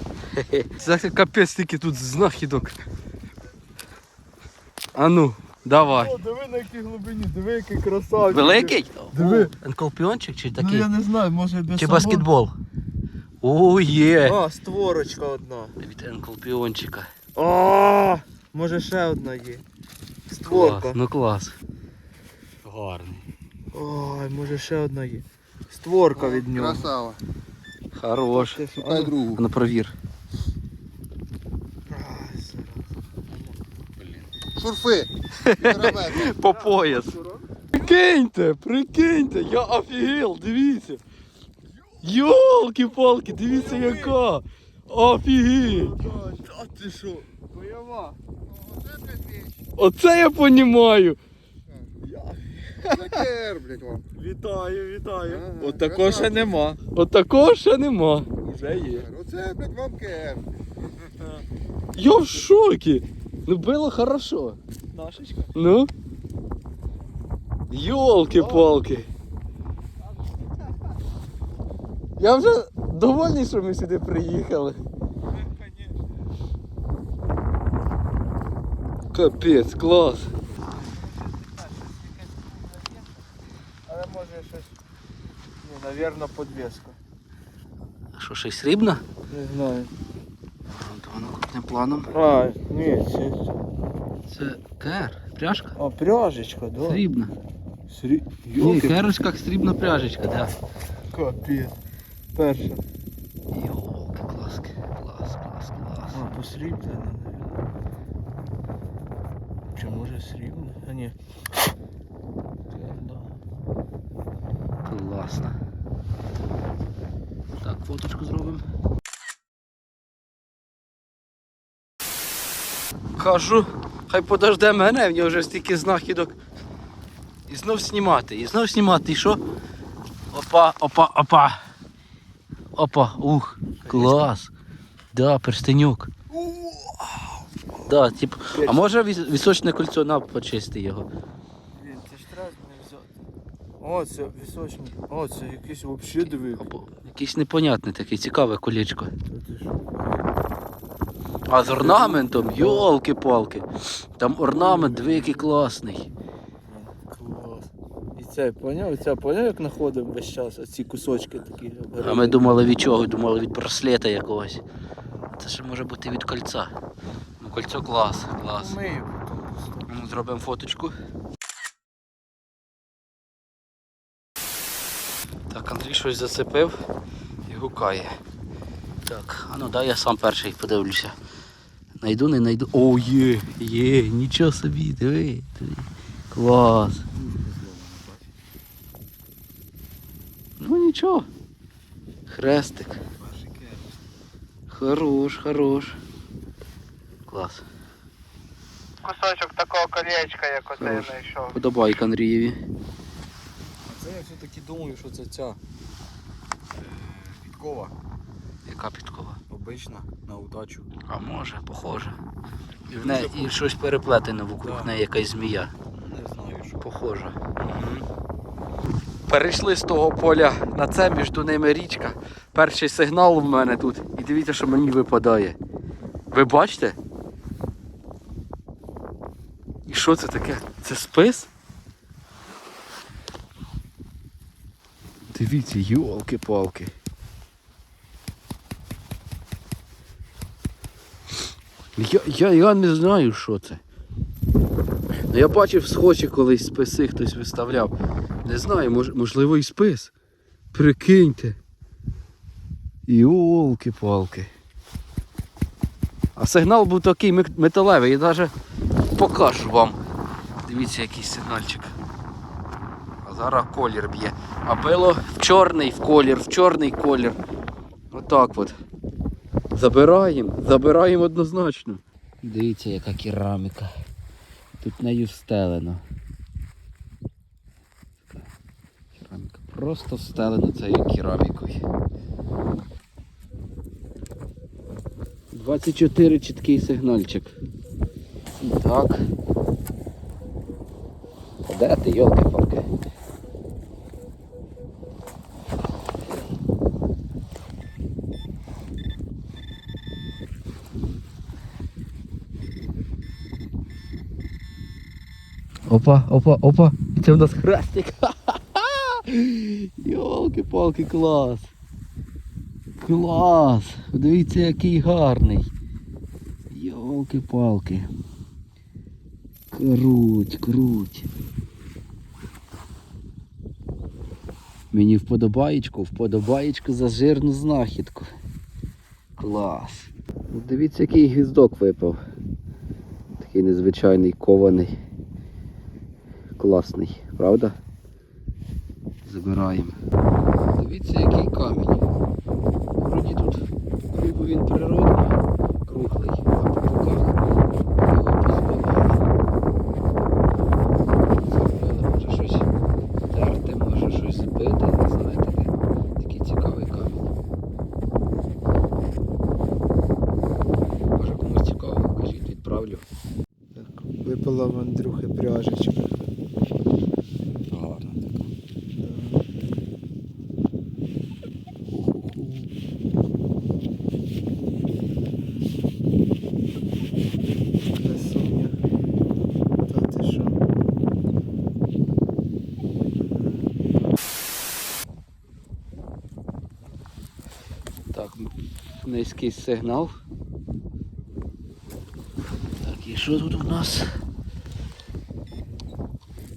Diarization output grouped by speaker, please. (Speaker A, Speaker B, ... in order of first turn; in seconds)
Speaker A: 0.3-2.8, 5.0-6.2, 8.3-10.9, 11.8-12.6, 13.4-14.4, 15.8-17.1, 20.5-21.6, 27.9-28.6, 29.3-29.9, 35.4-41.0, 42.0-45.9, 49.8-51.2, 56.9-58.3, 62.0-64.6, 65.5-65.9, 67.7-69.1, 72.2-74.9, 79.1-80.3, 88.2-89.0, 90.7-92.1, 94.3-95.8, 96.8-97.3, 98.5-100.5, 103.5-106.2, 114.8-115.6, 117.6-118.6, 123.2-126.4, 127.5-129.4, 130.3-131.6, 132.7-134.5, 135.1-136.1, 137.9-141.1, 146.2-149.1, 151.5-156.1, 162.0-164.6, 165.4-166.7, 167.4-168.8, 169.9-170.9, 175.5-176.7, 177.5-178.2, 179.0-181.2, 182.0-187.1, 190.6-191.3, 192.3-193.0, 194.7-196.0, 197.3-197.6, 199.1-202.6, 208.7-209.4, 211.1-212.2, 212.9-215.7, 216.8-218.1, 219.3-225.6, 226.3-227.0, 229.9-231.5, 235.3-236.9, 242.0-243.8, 245.3-247.9, 248.4-250.1, 250.7-251.6, 253.1-254.5, 256.4-258.5, 259.1-260.0, 260.6-262.0, 263.2-267.4, 268.1-268.8, 269.7-273.9, 274.8-276.0, 279.2-281.8, 285.5-287.6, 288.6-289.3, 291.6-292.9, 305.9-311.7, 313.0-315.7, 316.7-318.1, 319.7-321.3, 324.9-328.3, 329.4-332.2, 333.4-334.9, 336.6-337.8, 339.2-340.0, 340.8-342.1, 343.0-347.3, 348.1-349.2, 351.4-352.7, 353.3-357.3, 361.2-363.1, 371.9-372.7, 388.1-388.5, 389.0-390.1, 392.8-394.1
Speaker B: 5.8-9.5, 10.6-12.2, 14.2-15.8, 17.4-19.6, 20.3-21.0, 23.7-26.9, 28.3-29.2, 31.9-32.9, 43.5-44.1, 45.6-48.2, 52.1-53.2, 54.2-56.8, 58.4-59.1, 64.9-65.5, 68.3-68.7, 80.8-83.0, 83.9-84.8, 85.6-87.0, 89.3-89.9, 92.1-93.5, 95.8-97.0, 97.9-99.0, 101.1-101.8, 102.3-102.8, 106.1-107.6, 109.7-111.2, 112.7-113.3, 133.8-134.3, 136.3-137.3, 138.6-138.9, 141.8-143.1, 143.8-146.6, 149.3-150.2, 151.6-152.9, 154.5-155.4, 156.7-162.7, 165.0-165.3, 168.6-169.9, 199.7-200.4, 363.8-366.2, 369.0-369.5, 375.4-375.9, 378.0-378.8, 379.8-380.6, 383.2-383.7
Speaker C: 22.6-23.2, 187.2-188.3, 193.2-194.0, 203.9-205.6, 206.8-207.9, 209.5-210.9, 212.9-213.5, 214.6-214.9, 215.9-216.8, 367.7-368.4
Speaker D: 26.3-27.2, 28.8-29.4, 34.5-36.4, 48.5-49.5, 52.9-54.0, 55.3-56.6, 58.7-60.6